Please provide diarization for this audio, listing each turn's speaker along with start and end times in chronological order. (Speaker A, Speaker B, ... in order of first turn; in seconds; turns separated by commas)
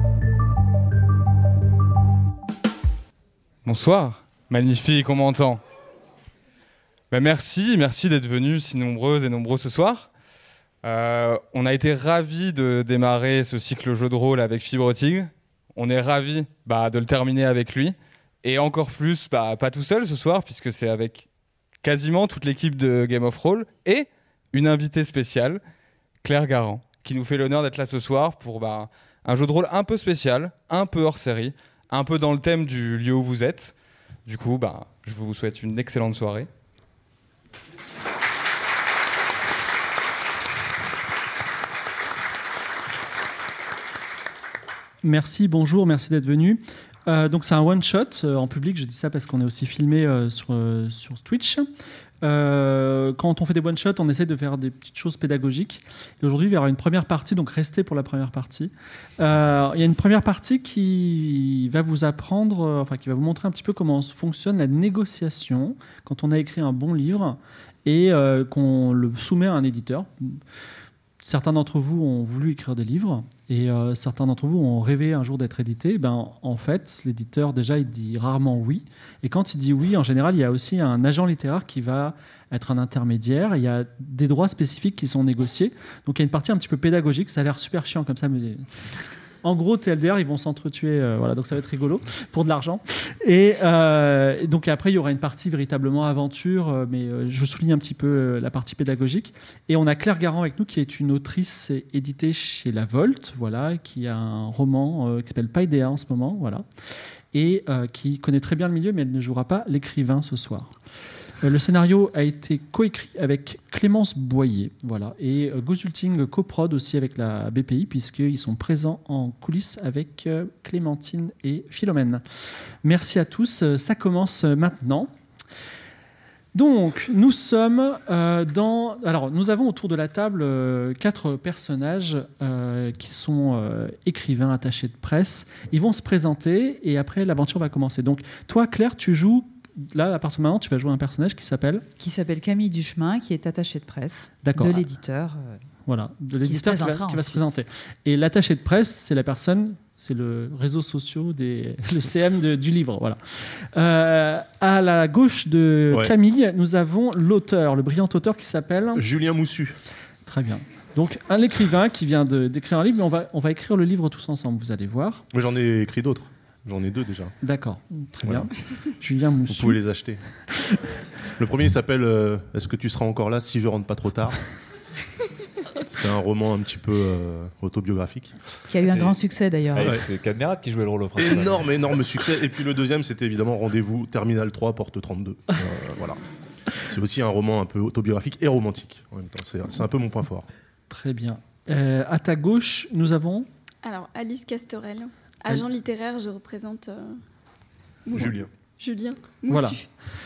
Speaker A: 3.6-5.6, Speaker A: 7.1-10.1, Speaker A: 10.8-21.3, Speaker A: 21.8-25.6, Speaker A: 26.2-33.7, Speaker A: 34.2-36.5, Speaker B: 45.0-51.7, Speaker B: 52.2-70.4, Speaker B: 71.2-106.7, Speaker B: 107.3-110.7, Speaker B: 111.4-122.2, Speaker B: 122.8-125.1, Speaker B: 126.5-141.8, Speaker C: 142.0-145.6, Speaker B: 144.4-144.8, Speaker B: 145.9-159.1, Speaker C: 146.4-147.4, Speaker D: 158.9-159.8, Speaker B: 160.2-165.2, Speaker D: 165.3-167.3, Speaker B: 167.4-169.8, Speaker D: 168.2-168.5, Speaker D: 169.5-170.2, Speaker D: 171.4-174.4, Speaker D: 175.9-178.3, Speaker C: 178.7-180.0, Speaker E: 178.8-179.2, Speaker E: 179.7-181.7, Speaker D: 181.2-186.2, Speaker D: 186.8-190.5, Speaker B: 190.9-193.5, Speaker F: 193.8-197.2, Speaker F: 198.1-199.9, Speaker D: 198.1-198.5, Speaker B: 199.5-199.8